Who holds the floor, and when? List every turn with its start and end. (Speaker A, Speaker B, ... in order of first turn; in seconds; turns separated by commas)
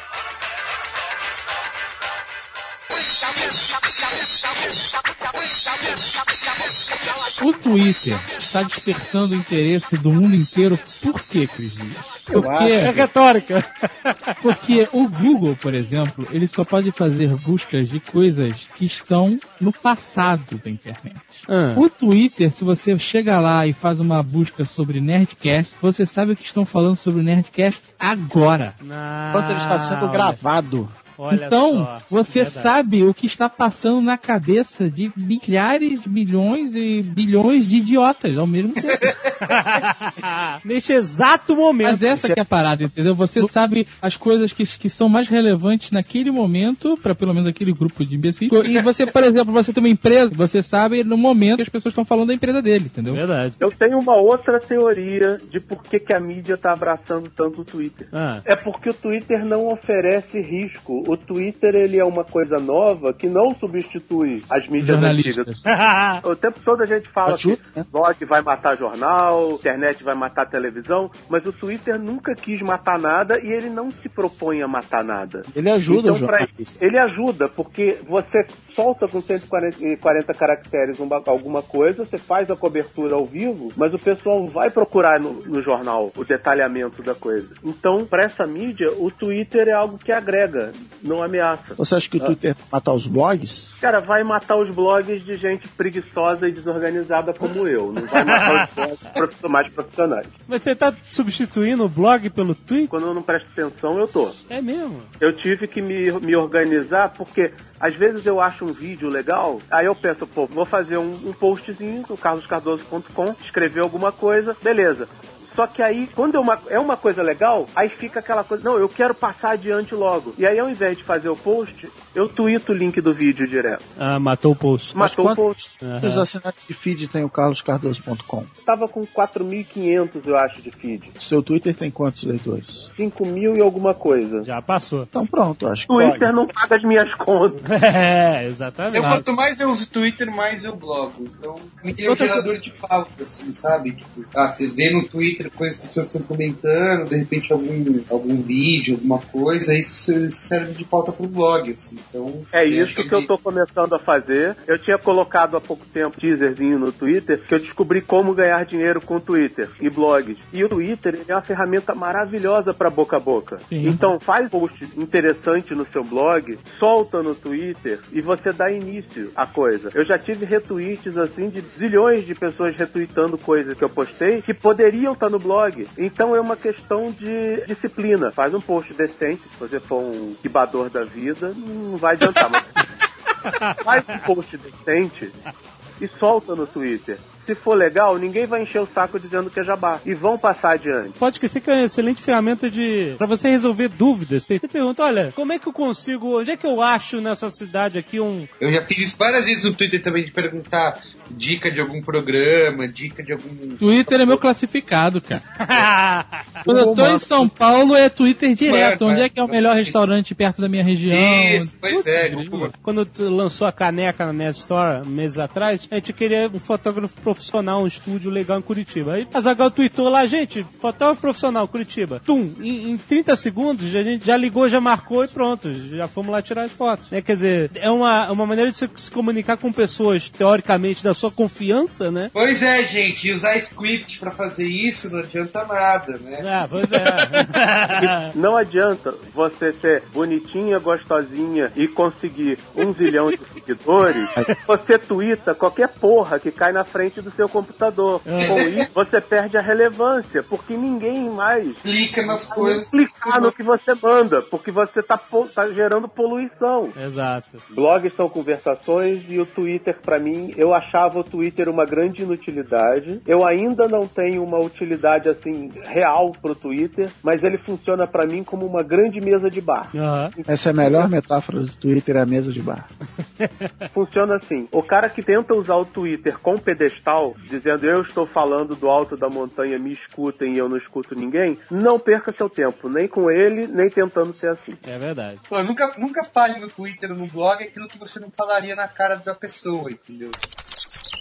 Speaker A: 7.4-13.1, Speaker B: 12.3-13.0, Speaker C: 12.8-14.3, Speaker A: 14.4-28.7, Speaker C: 21.5-21.8, Speaker C: 28.8-30.4, Speaker B: 29.3-30.9, Speaker C: 31.2-32.7, Speaker A: 31.3-39.1, Speaker C: 39.4-42.0, Speaker A: 41.8-53.2, Speaker B: 42.1-42.4, Speaker C: 53.1-53.6, Speaker D: 53.6-65.5, Speaker C: 58.1-58.4, Speaker A: 64.8-65.6, Speaker C: 65.6-66.2, Speaker D: 66.2-92.3, Speaker B: 67.2-67.9, Speaker B: 75.5-76.8, Speaker B: 91.8-93.8, Speaker D: 93.8-100.3, Speaker C: 98.1-98.8, Speaker C: 100.5-102.9, Speaker D: 102.9-104.4, Speaker C: 104.5-105.1, Speaker D: 105.2-123.8, Speaker C: 124.0-124.9, Speaker D: 124.9-125.6, Speaker B: 124.9-128.5, Speaker C: 125.8-126.3, Speaker D: 128.7-131.1, Speaker B: 131.2-132.9, Speaker D: 133.0-134.5, Speaker C: 134.4-135.1, Speaker B: 135.1-136.3, Speaker D: 135.9-137.6, Speaker C: 137.7-139.2, Speaker E: 138.9-153.3, Speaker A: 142.0-142.4, Speaker D: 152.5-182.8, Speaker A: 163.7-164.0, Speaker C: 183.4-183.8, Speaker D: 183.8-185.3, Speaker D: 186.0-191.2, Speaker C: 191.2-198.5, Speaker E: 198.6-204.3, Speaker A: 203.8-205.4, Speaker C: 205.5-206.5, Speaker B: 206.6-207.5, Speaker A: 206.6-212.6, Speaker E: 208.6-209.9, Speaker E: 211.1-212.7, Speaker C: 212.5-232.3, Speaker E: 232.3-237.4, Speaker C: 236.4-238.3, Speaker D: 238.2-256.9, Speaker C: 248.2-248.6, Speaker E: 248.5-248.8, Speaker E: 251.8-253.5, Speaker C: 256.9-257.6, Speaker D: 257.7-271.1, Speaker C: 269.9-270.3, Speaker B: 270.5-272.9, Speaker C: 273.4-273.7, Speaker D: 273.9-284.8, Speaker C: 284.8-285.4, Speaker E: 285.5-290.4